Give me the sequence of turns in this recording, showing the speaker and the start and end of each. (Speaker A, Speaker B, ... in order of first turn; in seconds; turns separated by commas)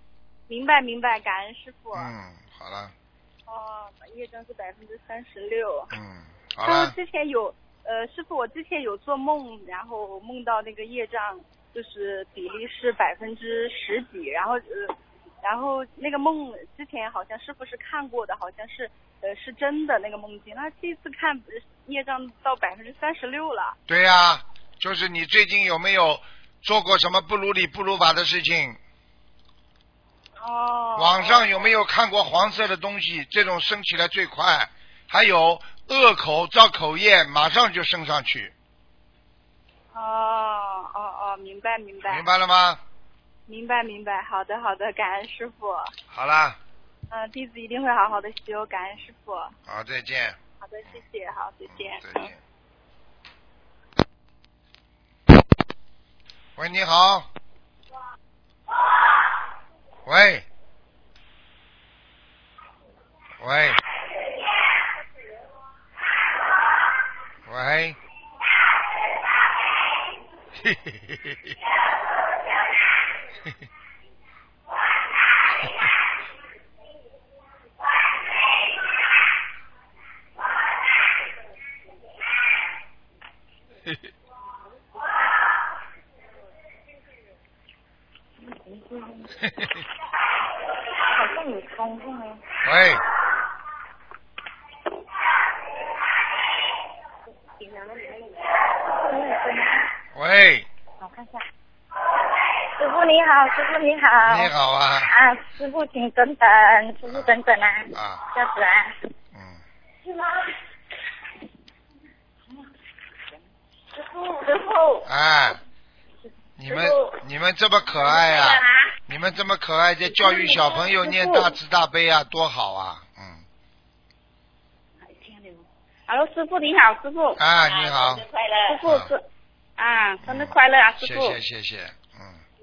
Speaker A: 0.5-2.1, Speaker B: 1.9-2.9, Speaker A: 3.5-5.9, Speaker B: 5.9-7.0, Speaker A: 6.7-23.8, Speaker B: 23.9-28.8, Speaker A: 30.4-31.7, Speaker B: 31.0-38.5, Speaker A: 39.9-42.3, Speaker B: 42.0-42.8, Speaker A: 43.5-45.9, Speaker B: 46.1-46.6, Speaker A: 47.1-49.5, Speaker B: 49.7-50.4, Speaker A: 50.6-52.3, Speaker B: 51.7-52.4, Speaker B: 56.6-57.3, Speaker B: 60.0-60.5, Speaker B: 63.4-63.8, Speaker B: 67.5-68.0, Speaker B: 70.6-71.5, Speaker C: 88.5-89.2, Speaker B: 89.5-89.8, Speaker C: 91.2-92.4, Speaker B: 92.6-93.0, Speaker C: 97.6-98.2, Speaker C: 98.9-99.8, Speaker B: 100.1-100.7, Speaker C: 101.0-101.3, Speaker C: 102.8-104.5, Speaker B: 104.2-105.1, Speaker C: 105.0-108.9, Speaker B: 107.9-108.2, Speaker B: 109.3-109.6, Speaker C: 114.1-115.0, Speaker B: 115.0-115.6, Speaker B: 116.6-123.4, Speaker D: 120.0-121.6, Speaker D: 126.1-127.4, Speaker B: 127.4-128.3, Speaker D: 128.6-129.2, Speaker B: 128.8-129.1, Speaker D: 129.8-131.4, Speaker B: 130.2-132.4